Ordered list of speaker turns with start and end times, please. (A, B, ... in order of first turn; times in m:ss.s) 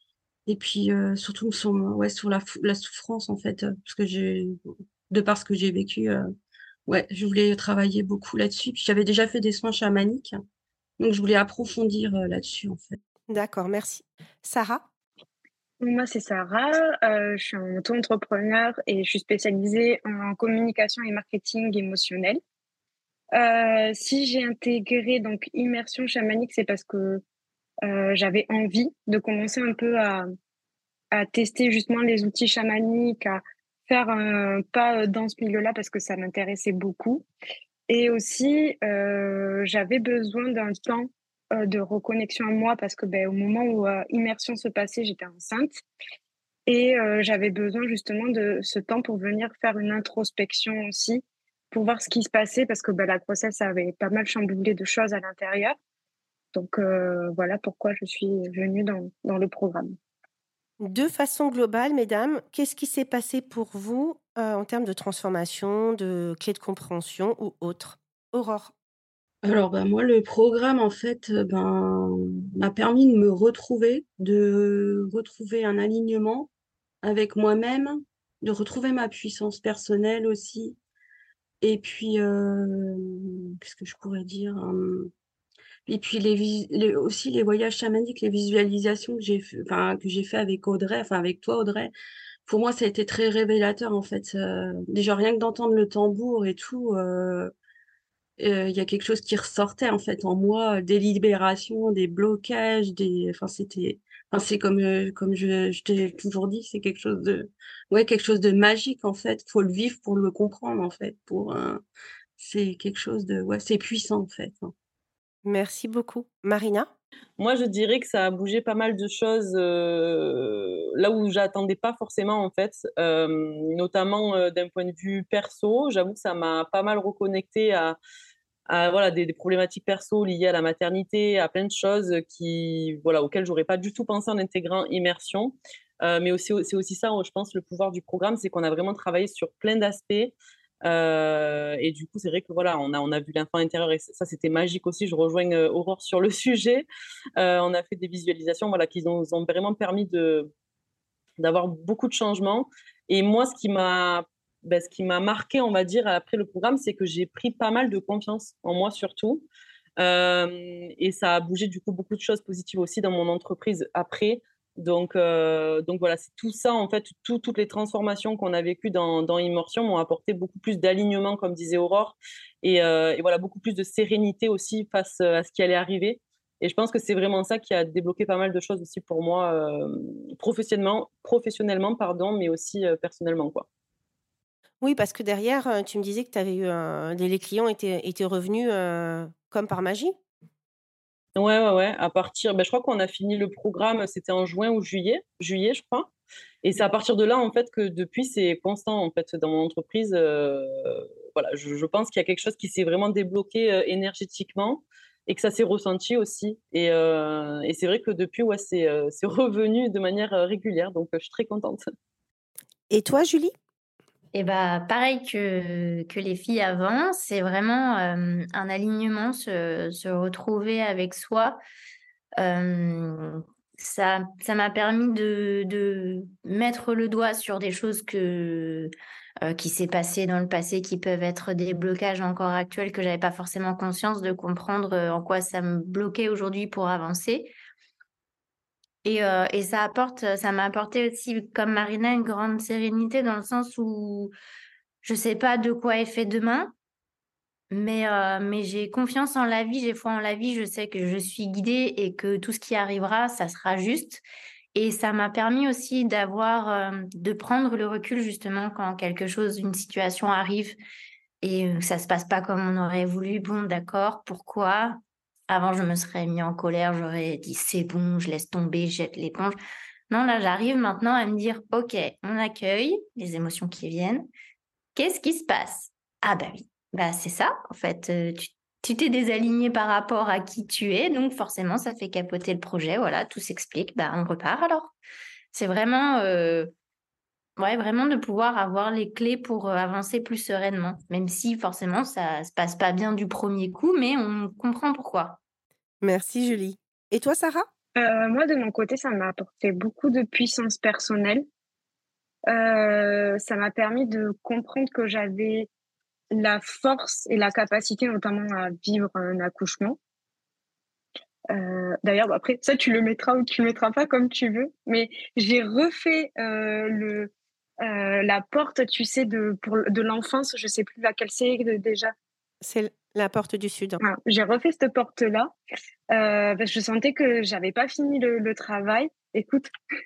0:00.5-0:06.3 A
0:06.9-0:10.4 A
0:11.0-0:13.0 A
0:13.3-0:14.9 B
0:15.8-0:22.4 C
0:23.4-0:27.2 C
0:27.8-0:30.2 C
0:31.1-0:37.2 C
0:37.9-0:45.8 C
0:46.7-0:55.8 C
0:56.5-1:00.0 C
1:00.8-1:08.7 B
1:09.4-1:16.5 A
1:17.0-1:20.8 A
1:21.6-1:25.1 A
1:25.9-1:31.9 A
1:32.5-1:37.5 A
1:38.4-1:51.8 A
1:52.4-1:54.7 A
1:55.4-1:56.9 B
1:57.4-2:08.0 D
2:08.7-2:20.3 D
2:20.8-2:26.9 D
2:27.4-2:30.5 D
2:31.4-2:39.4 D
2:40.0-3:03.7 D
3:04.8-3:10.2 B
3:11.4-3:16.1 D
3:16.6-3:31.9 D
3:32.9-3:33.5 B
3:34.3-3:41.6 E
3:42.4-3:48.9 E
3:49.4-3:57.5 E
3:59.0-4:04.3 E
4:05.0-4:06.7 E
4:07.7-4:14.2 E
4:14.8-4:20.8 E
4:21.4-4:29.6 E
4:30.1-4:34.3 E
4:35.0-4:44.9 E
4:45.5-4:46.7 E
4:47.6-4:55.4 E
4:56.0-4:57.7 B
4:58.0-5:01.4 C
5:02.5-5:05.7 C
5:06.3-5:10.0 C
5:11.5-5:17.3 C
5:17.8-5:22.1 C
5:22.6-5:24.0 B
5:24.0-5:25.5 C
5:26.1-5:29.7 C